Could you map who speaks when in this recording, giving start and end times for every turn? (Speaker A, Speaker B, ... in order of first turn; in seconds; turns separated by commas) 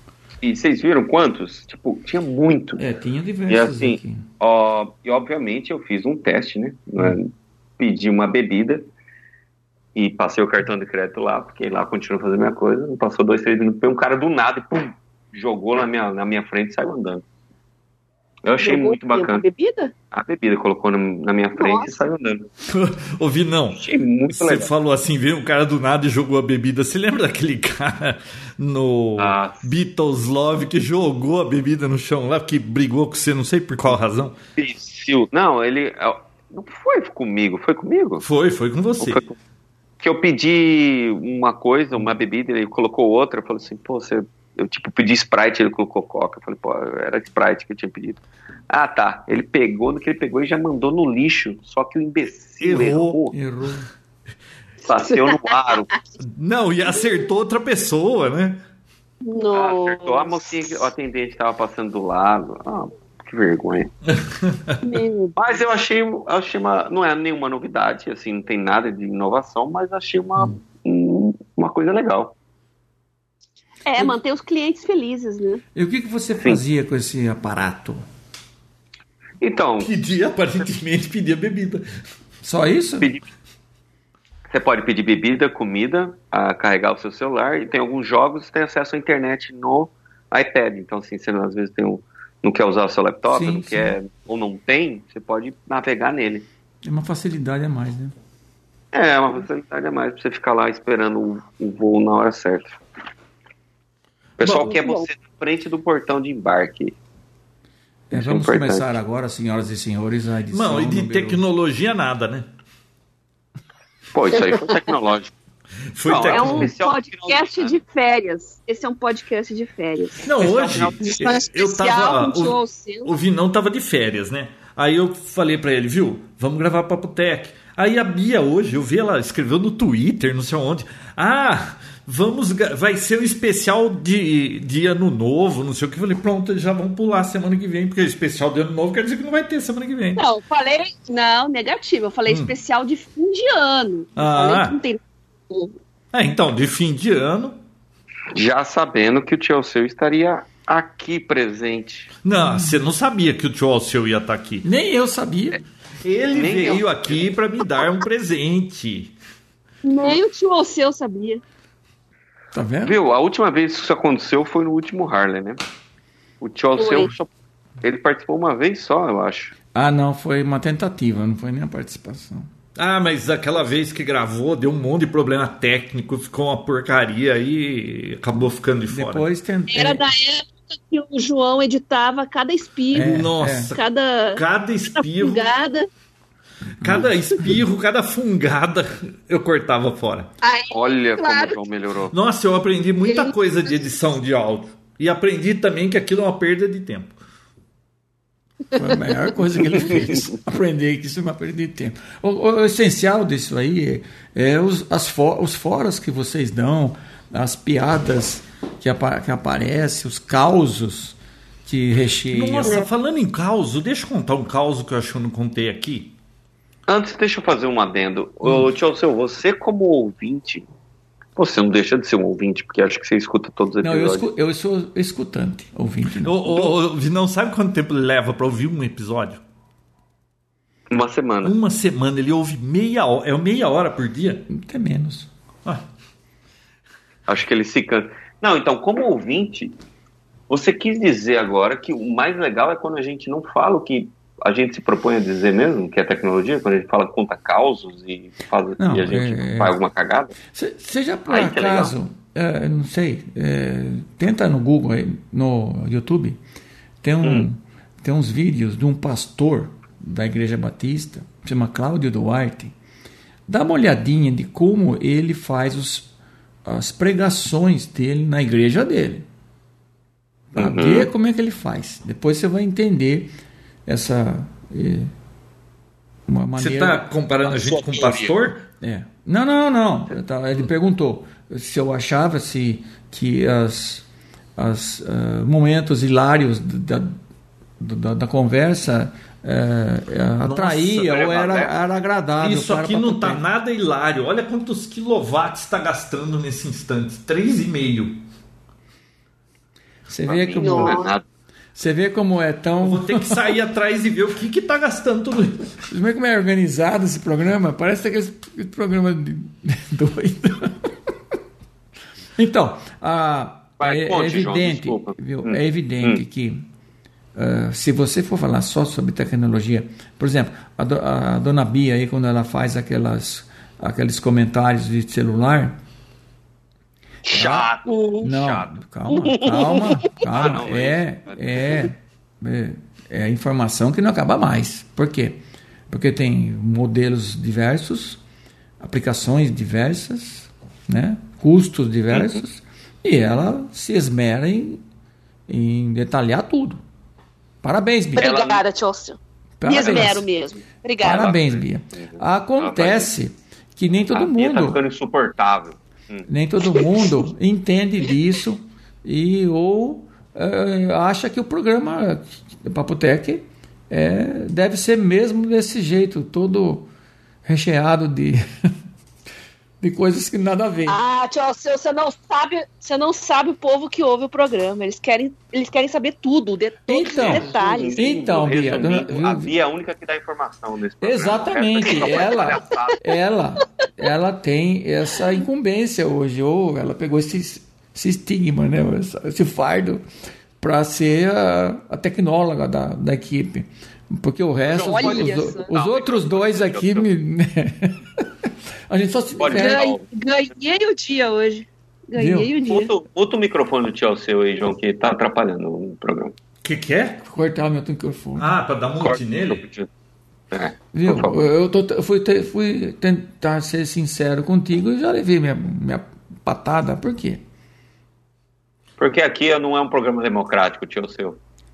Speaker A: 0.4-2.8, Speaker B: 2.8-4.3, Speaker A: 3.5-8.9, Speaker A: 9.9-17.2, Speaker A: 18.4-19.5, Speaker C: 18.6-19.9, Speaker A: 20.1-22.5, Speaker C: 21.6-21.9, Speaker D: 22.7-34.4, Speaker A: 23.7-24.7, Speaker A: 29.2-29.6, Speaker A: 34.6-38.2, Speaker D: 38.2-39.2, Speaker A: 39.0-39.4, Speaker A: 40.0-53.4, Speaker D: 52.6-53.2, Speaker B: 53.3-53.9, Speaker A: 54.8-55.9, Speaker C: 54.9-56.0, Speaker D: 56.4-58.6, Speaker C: 59.2-60.4, Speaker A: 59.5-63.9, Speaker D: 64.1-64.8, Speaker C: 64.8-65.4, Speaker A: 65.4-72.3, Speaker C: 73.9-75.6, Speaker B: 75.8-78.0, Speaker A: 79.4-80.0, Speaker D: 79.8-81.8, Speaker B: 82.4-83.1, Speaker A: 83.0-83.3, Speaker A: 84.5-96.5, Speaker B: 93.3-93.9, Speaker B: 96.8-98.1, Speaker A: 98.9-102.8, Speaker A: 104.4-107.0, Speaker C: 104.5-105.1, Speaker B: 108.1-111.4, Speaker A: 108.1-108.9, Speaker D: 110.5-112.5, Speaker A: 114.1-115.3, Speaker C: 114.5-114.8, Speaker D: 115.9-116.7, Speaker A: 116.0-117.8, Speaker C: 116.3-120.3, Speaker D: 120.2-140.2, Speaker A: 120.3-121.4, Speaker C: 121.0-123.1, Speaker C: 140.2-145.7, Speaker D: 142.3-142.5, Speaker D: 144.2-144.8, Speaker D: 146.1-147.6, Speaker A: 148.3-152.1, Speaker D: 152.2-154.7, Speaker B: 152.4-152.7, Speaker B: 154.6-155.6, Speaker D: 156.0-159.1, Speaker A: 156.3-157.3, Speaker C: 159.8-161.4, Speaker B: 162.5-163.0, Speaker A: 162.8-165.6, Speaker A: 166.4-167.3, Speaker C: 166.8-167.1, Speaker A: 167.8-169.5, Speaker B: 169.8-172.5, Speaker D: 172.8-179.2, Speaker B: 178.9-180.0, Speaker C: 179.7-184.4, Speaker B: 182.9-183.7, Speaker D: 182.9-183.8, Speaker D: 184.3-185.5, Speaker C: 184.9-185.9, Speaker B: 186.8-187.6, Speaker D: 186.8-190.3, Speaker C: 190.4-191.6, Speaker A: 190.7-192.1, Speaker D: 192.1-197.2, Speaker C: 193.1-193.3, Speaker B: 198.8-212.8, Speaker A: 199.9-200.3, Speaker D: 212.3-216.1, Speaker A: 216.9-220.7, Speaker A: 221.4-224.2, Speaker B: 223.8-226.8, Speaker D: 226.2-229.4, Speaker A: 230.9-231.6, Speaker D: 231.4-234.5, Speaker B: 234.5-235.3, Speaker A: 237.3-239.8, Speaker A: 240.5-250.3, Speaker B: 248.8-249.8, Speaker B: 250.5-256.4, Speaker A: 251.3-251.9, Speaker B: 257.0-262.8, Speaker A: 257.2-257.5, Speaker B: 263.5-266.1, Speaker B: 266.7-269.3, Speaker B: 270.5-273.3, Speaker A: 270.6-271.1, Speaker B: 273.9-275.1, Speaker B: 276.3-277.1, Speaker D: 276.6-278.7, Speaker A: 277.5-278.4, Speaker B: 278.8-284.1, Speaker B: 284.6-287.2, Speaker B: 287.8-293.4, Speaker D: 290.4-291.0, Speaker A: 290.9-291.8, Speaker D: 292.4-298.2, Speaker B: 300.1-301.1, Speaker A: 300.3-301.2, Speaker C: 300.6-301.1, Speaker B: 301.8-303.4, Speaker D: 302.8-305.7, Speaker B: 305.9-310.9, Speaker B: 312.4-316.7, Speaker A: 313.8-316.2, Speaker B: 317.4-325.8, Speaker A: 327.3-328.8, Speaker B: 327.3-327.7, Speaker C: 327.9-328.2, Speaker B: 328.2-338.2, Speaker C: 329.1-330.1, Speaker A: 330.2-331.8, Speaker B: 338.8-344.8, Speaker A: 342.1-342.4, Speaker B: 345.5-346.8, Speaker B: 347.6-348.3, Speaker C: 348.2-351.3, Speaker A: 348.2-348.6, Speaker B: 349.6-350.2, Speaker B: 351.0-354.8, Speaker A: 351.1-353.1, Speaker A: 354.1-356.3, Speaker B: 356.3-366.9, Speaker B: 367.5-368.4, Speaker B: 369.8-371.0, Speaker C: 370.9-378.1, Speaker B: 376.9-379.5, Speaker A: 377.1-383.0, Speaker B: 381.0-390.0, Speaker B: 390.6-399.9, Speaker A: 394.7-397.1, Speaker C: 394.8-395.7, Speaker A: 399.4-400.1, Speaker C: 399.5-402.9, Speaker B: 402.1-402.5, Speaker A: 402.7-406.4, Speaker D: 406.6-407.2, Speaker B: 407.2-408.5, Speaker D: 408.4-409.6, Speaker A: 409.0-409.9, Speaker A: 410.5-411.4, Speaker B: 410.9-417.4, Speaker A: 419.0-421.4